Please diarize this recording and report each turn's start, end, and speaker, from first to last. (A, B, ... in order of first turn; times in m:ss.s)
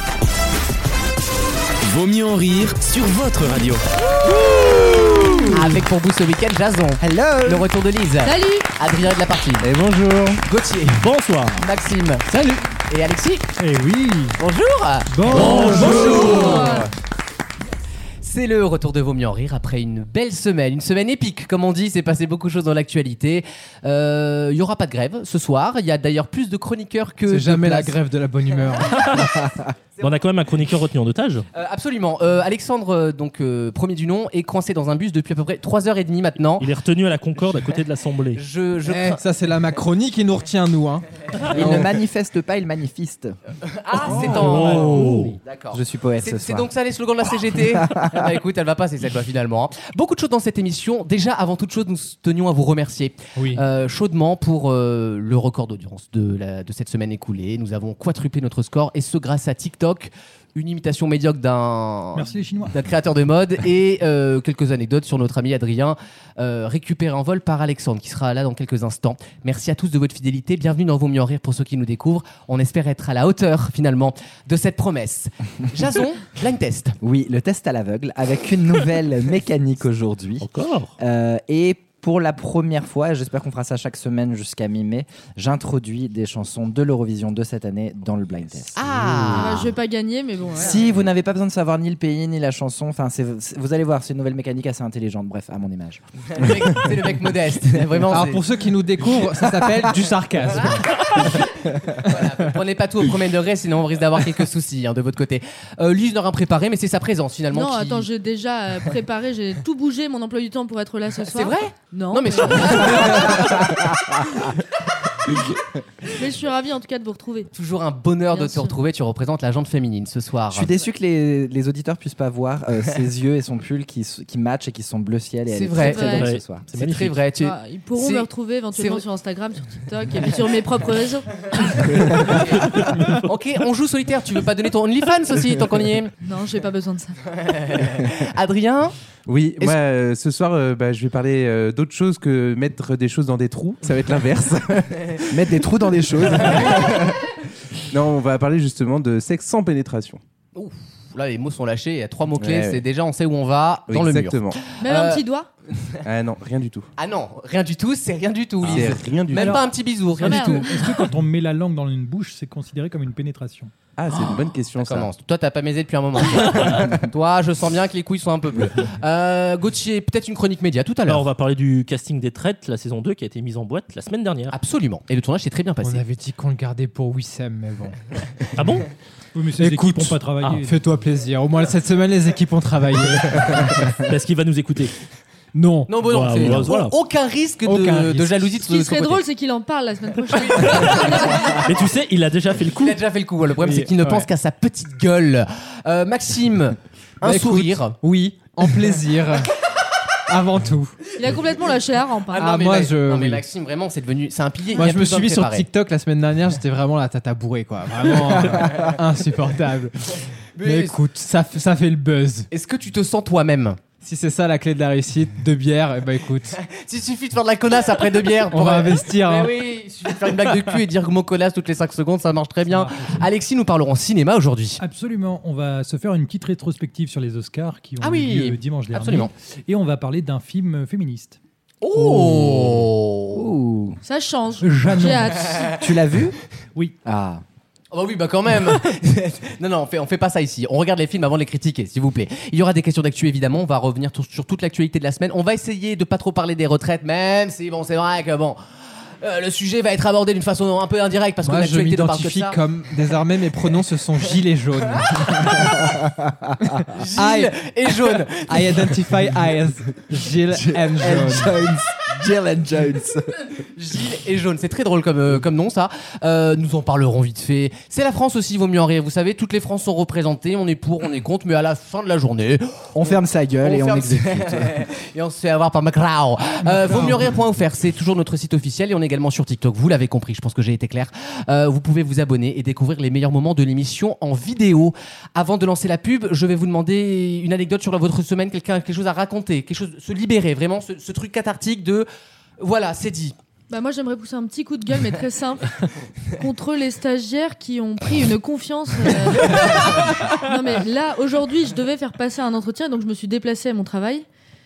0:01.8-0:03.8 A
0:05.0-0:05.4 B
0:05.5-0:09.7 C
0:07.0-0:07.6 B
0:08.2-0:08.7 D
0:09.6-0:10.4 E
0:10.4-0:11.0 C
0:11.0-0:11.6 F
0:11.6-0:13.5 C
0:12.3-0:12.6 G
0:13.6-0:14.1 G
0:13.9-0:14.4 H
0:14.4-0:16.9 C
0:15.1-0:16.2 H
0:15.6-0:16.8 E
0:15.8-0:16.9 D
0:18.2-0:28.0 C
0:27.3-0:29.0 G
0:28.9-0:29.3 F
0:30.0-0:31.4 F
0:31.5-0:36.7 C
0:36.6-0:38.4 F
0:38.4-0:39.2 C
0:38.9-0:41.0 G
0:41.5-0:43.4 B
0:43.6-1:17.0 C
0:44.0-0:46.7 B
0:44.3-0:45.4 F
0:47.6-0:48.4 B
0:53.4-0:53.6 G
1:02.1-1:02.7 H
1:17.0-1:20.5 B
1:20.4-1:20.9 F
1:21.0-1:29.7 B
1:28.8-1:29.7 C
1:29.4-1:30.9 D
1:30.6-1:36.0 B
1:36.3-1:38.4 C
1:38.1-1:41.2 G
1:40.5-1:48.1 C
1:47.5-1:53.4 D
1:51.3-1:53.8 C
1:56.1-1:57.5 D
1:57.5-2:00.7 C
1:58.3-1:58.8 D
2:00.5-2:06.6 B
2:05.5-2:06.2 C
2:05.8-2:06.3 D
2:06.2-2:07.2 F
2:06.7-2:09.0 C
2:07.4-2:11.8 D
2:11.5-2:16.1 C
2:12.3-2:13.1 F
2:16.2-2:17.2 D
2:17.4-2:19.0 C
2:19.3-2:27.2 E
2:25.5-2:27.0 B
2:27.9-2:30.2 E
2:30.6-2:35.2 C
2:32.4-2:32.8 E
2:33.9-2:34.6 E
2:34.8-2:35.5 D
2:36.0-2:36.9 E
2:37.0-2:40.8 C
2:38.6-2:39.6 E
2:39.4-2:43.7 H
2:40.2-2:41.1 D
2:44.0-2:45.1 E
2:44.1-2:51.2 C
2:51.1-2:54.6 F
2:54.5-2:56.0 C
2:55.8-2:58.0 G
2:58.6-2:58.9 F
2:59.3-3:01.0 H
2:59.6-3:03.8 G
3:04.0-3:04.9 F
3:05.5-3:05.9 G
3:05.9-3:09.2 C
3:06.0-3:06.9 F
3:07.6-3:08.4 G
3:08.6-3:11.6 D
3:10.3-3:11.7 C
3:10.6-3:13.0 F
3:12.7-3:18.0 C
3:13.6-3:14.3 G
3:17.2-3:19.5 G
3:20.3-3:21.0 G
3:21.2-3:22.7 D
3:22.4-3:25.7 C
3:22.4-3:23.4 G
3:24.7-3:30.0 G
3:30.6-3:31.0 C
3:30.6-3:32.5 G
3:32.5-3:33.8 C
3:34.0-3:36.6 G
3:36.6-3:44.8 C
3:38.5-3:39.7 G
3:42.6-3:43.3 H
3:44.8-3:51.4 H
3:48.0-3:49.3 C
3:51.8-3:53.5 C
3:53.3-3:54.0 B
3:54.0-3:55.8 D
3:54.6-3:55.5 H
3:55.8-3:56.4 B
3:57.0-3:57.4 B
3:57.9-4:08.6 C
4:09.2-4:12.6 C
4:11.4-4:15.5 G
4:15.6-4:16.7 B
4:16.9-4:19.3 C
4:17.2-4:17.5 G
4:18.3-4:21.7 G
4:20.9-4:23.4 B
4:23.8-4:52.1 C
4:32.9-4:34.8 B
4:36.8-4:37.2 H
4:52.6-4:53.3 C
4:53.7-4:55.8 D
4:56.3-5:04.3 D